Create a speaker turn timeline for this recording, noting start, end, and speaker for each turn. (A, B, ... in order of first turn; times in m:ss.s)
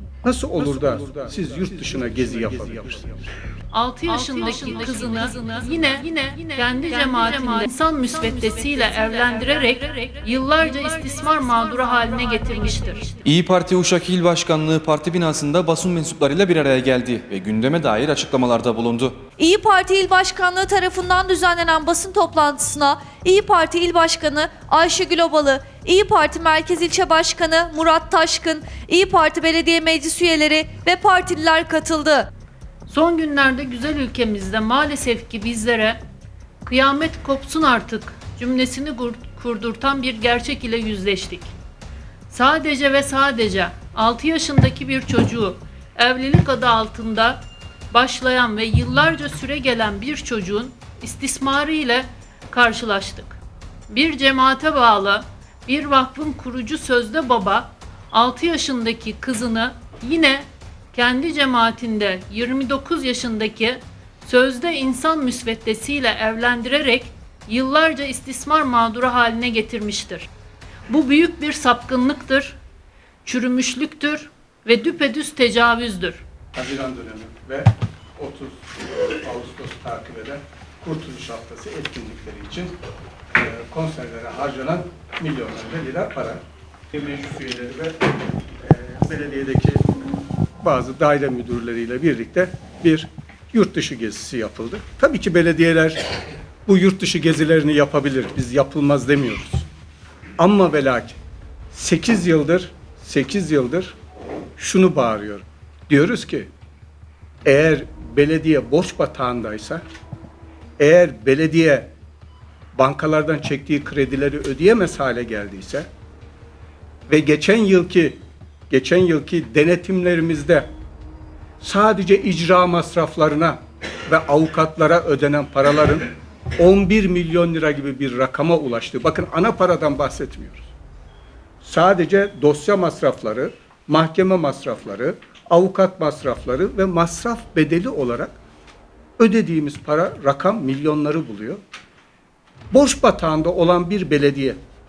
0:00.2-0:03.2 A
0:03.7-0:13.1 B
0:13.2-0:19.2 C
0:19.4-0:32.3 D
0:32.9-0:36.0 B
0:36.6-0:41.5 B
0:42.3-1:10.3 B
1:10.9-1:12.6 B
1:13.2-1:16.2 B
1:16.5-1:22.7 A
1:23.4-1:26.4 A
1:26.9-1:28.0 A
1:28.6-1:29.9 A
1:30.6-1:36.0 A
1:36.7-1:39.7 A
1:40.4-1:41.2 A
1:41.7-1:44.0 A
1:44.6-1:46.5 A
1:47.4-1:49.8 A
1:50.8-1:51.9 A
1:52.8-1:55.9 A
1:57.1-1:58.2 A
1:58.7-2:00.7 A
2:01.6-2:10.7 A
2:11.6-2:18.3 A
2:19.2-2:21.6 A
2:22.7-2:24.6 A